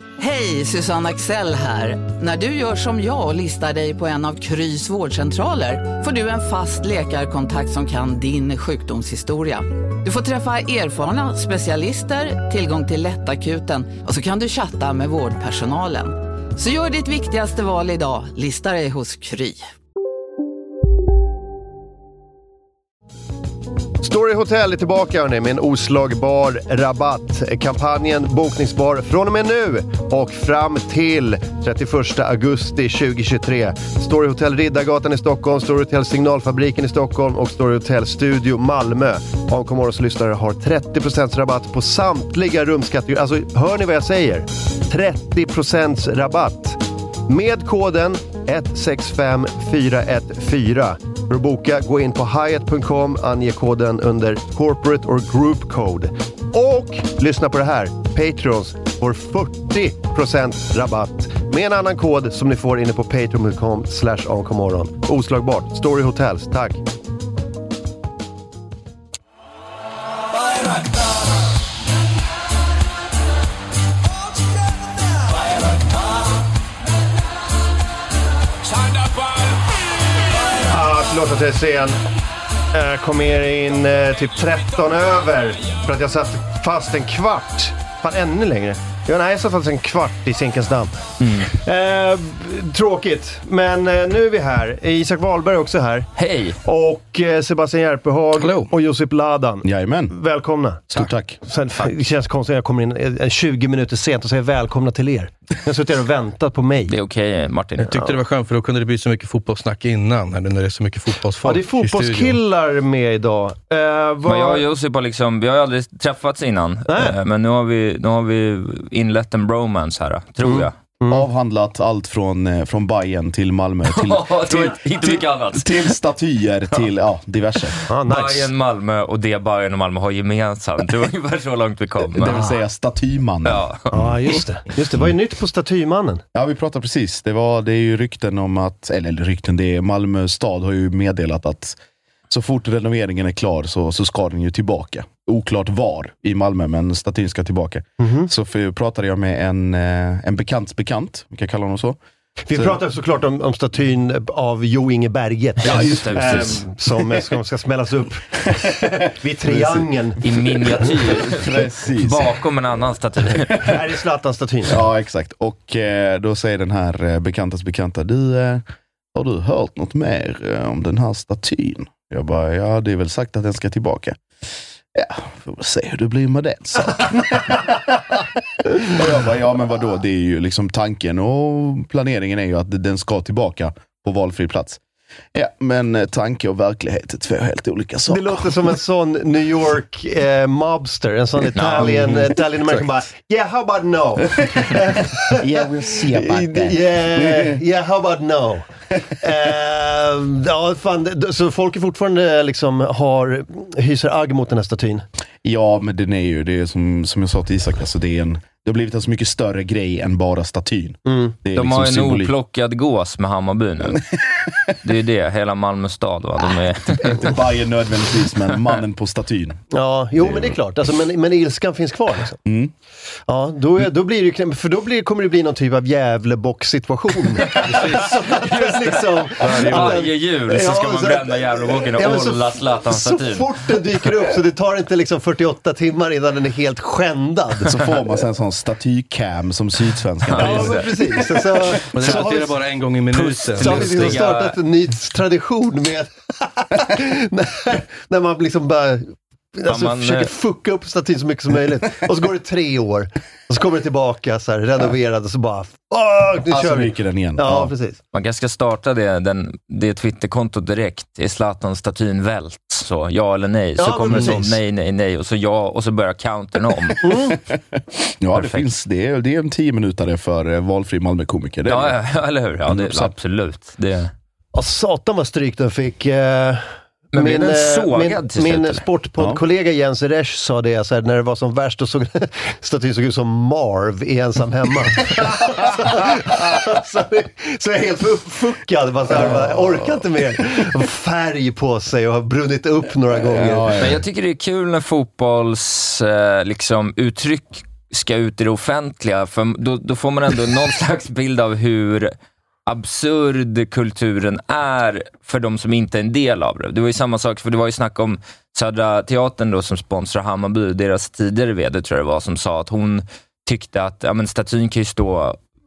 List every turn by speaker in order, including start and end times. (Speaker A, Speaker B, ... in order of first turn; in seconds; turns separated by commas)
Speaker A: 0.2-19.7, Speaker B: 24.0-66.8, Speaker B: 80.6-82.0, Speaker B: 82.7-96.1, Speaker C: 91.2-91.5, Speaker C: 96.2-96.6, Speaker B: 96.6-106.9, Speaker D: 98.4-98.7, Speaker E: 99.6-100.1, Speaker E: 100.9-101.4, Speaker C: 106.9-108.0, Speaker D: 107.8-112.4, Speaker B: 111.4-114.6, Speaker C: 114.3-120.7, Speaker B: 116.9-117.2, Speaker B: 120.4-121.3, Speaker E: 121.1-127.8, Speaker C: 123.9-125.9, Speaker C: 127.8-132.4, Speaker B: 127.9-128.5, Speaker E: 132.2-134.2, Speaker C: 133.4-133.9, Speaker B: 133.9-136.2, Speaker E: 136.3-141.8, Speaker E: 142.3-152.0, Speaker B: 148.0-148.3, Speaker B: 152.5-160.2, Speaker E: 152.5-152.8, Speaker E: 155.6-156.6, Speaker C: 155.6-156.6, Speaker E: 159.5-159.9, Speaker C: 160.2-163.8, Speaker E: 161.1-162.3, Speaker B: 163.6-164.8, Speaker E: 164.7-174.2, Speaker E: 174.9-184.8, Speaker E: 185.3-188.6, Speaker B: 188.1-198.7, Speaker C: 191.6-191.9, Speaker E: 194.6-197.6, Speaker B: 199.2-205.1, Speaker E: 205.4-212.3, Speaker B: 211.1-211.4, Speaker C: 211.6-214.0, Speaker E: 213.8-214.8, Speaker C: 214.8-217.4, Speaker E: 216.8-219.6, Speaker B: 219.7-222.4, Speaker E: 220.2-220.6, Speaker E: 222.5-222.7, Speaker B: 223.3-237.7, Speaker D: 227.7-228.1, Speaker C: 228.5-233.5, Speaker D: 229.4-230.0, Speaker E: 237.7-240.9, Speaker C: 240.3-240.9, Speaker B: 240.3-242.6, Speaker D: 241.9-244.2, Speaker C: 243.1-244.6, Speaker B: 243.6-258.0, Speaker C: 249.7-250.3, Speaker E: 256.5-257.7, Speaker C: 258.1-267.1, Speaker B: 263.8-264.6, Speaker B: 267.0-267.4, Speaker E: 267.3-272.0, Speaker C: 268.3-268.7, Speaker C: 271.7-274.1, Speaker E: 272.7-273.1, Speaker B: 274.5-293.8, Speaker C: 277.1-278.8, Speaker E: 289.3-289.6, Speaker E: 293.3-294.0, Speaker C: 293.8-302.1, Speaker C: 302.7-315.4